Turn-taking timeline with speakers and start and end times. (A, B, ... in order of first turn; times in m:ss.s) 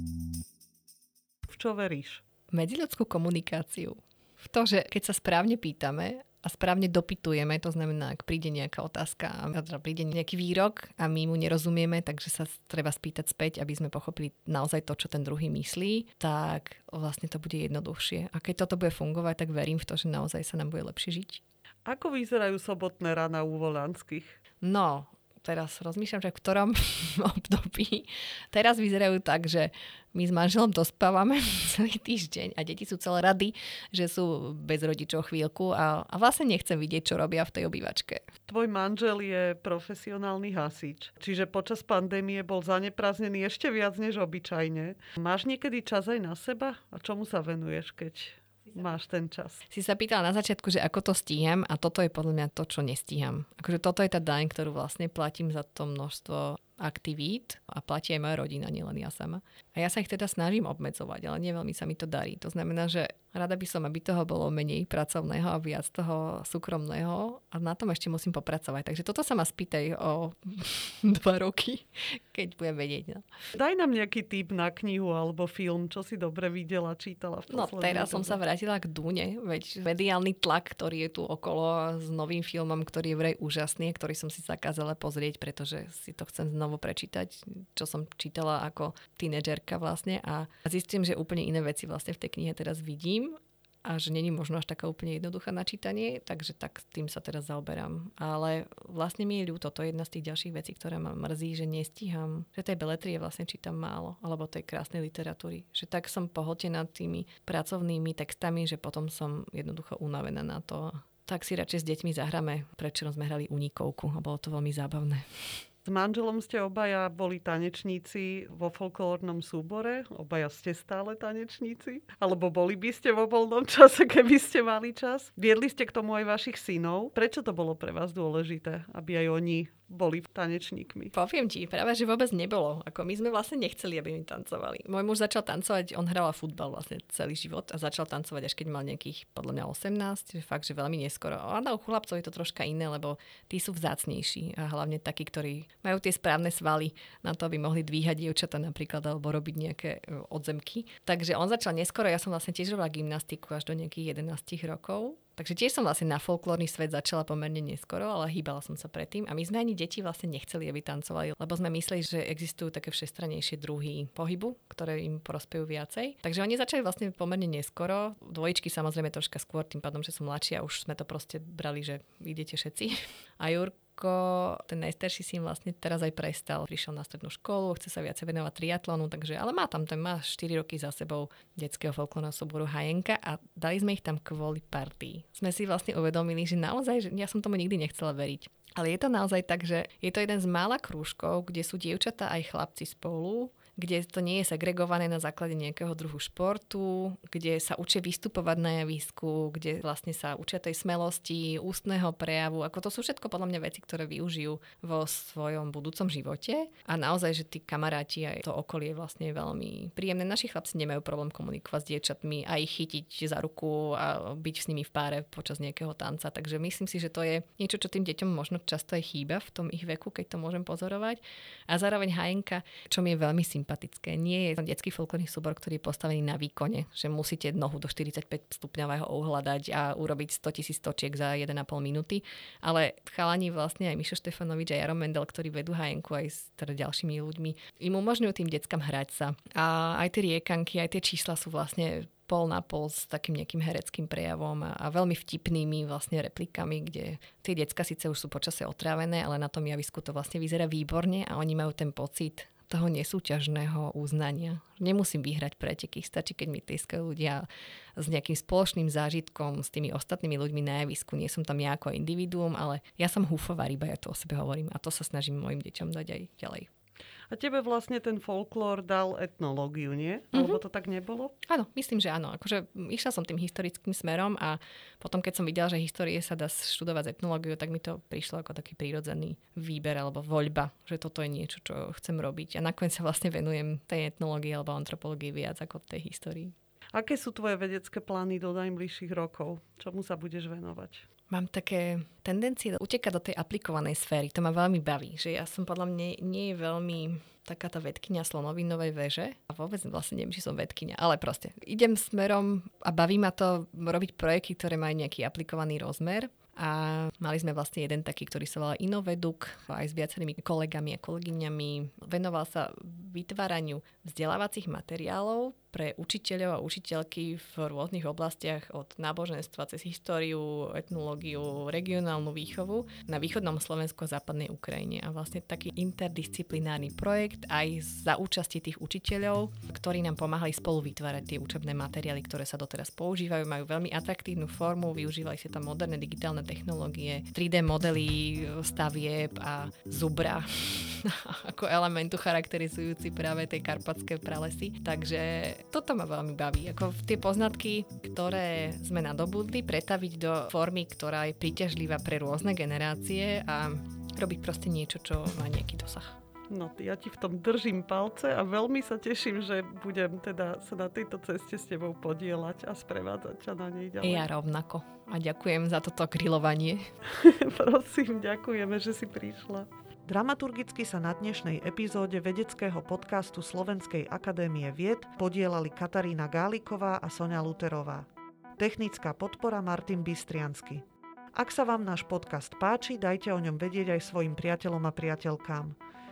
0:01.5-0:02.2 A
0:02.5-0:21.4 B
0:21.8-0:24.4 A
0:24.6-0:38.2 B
0:38.5-0:49.6 A
0:49.7-1:13.2 B
1:13.5-1:18.4 A
1:17.5-1:55.6 B
1:55.8-2:11.1 A
2:11.1-4:26.7 B
4:27.3-4:31.3 A
4:30.3-4:30.6 B
4:31.4-4:46.5 B
4:46.9-4:51.0 A
4:51.3-5:56.2 B
5:56.5-6:04.3 A
6:04.0-6:06.8 B
6:07.0-6:18.0 A
6:18.6-6:25.8 A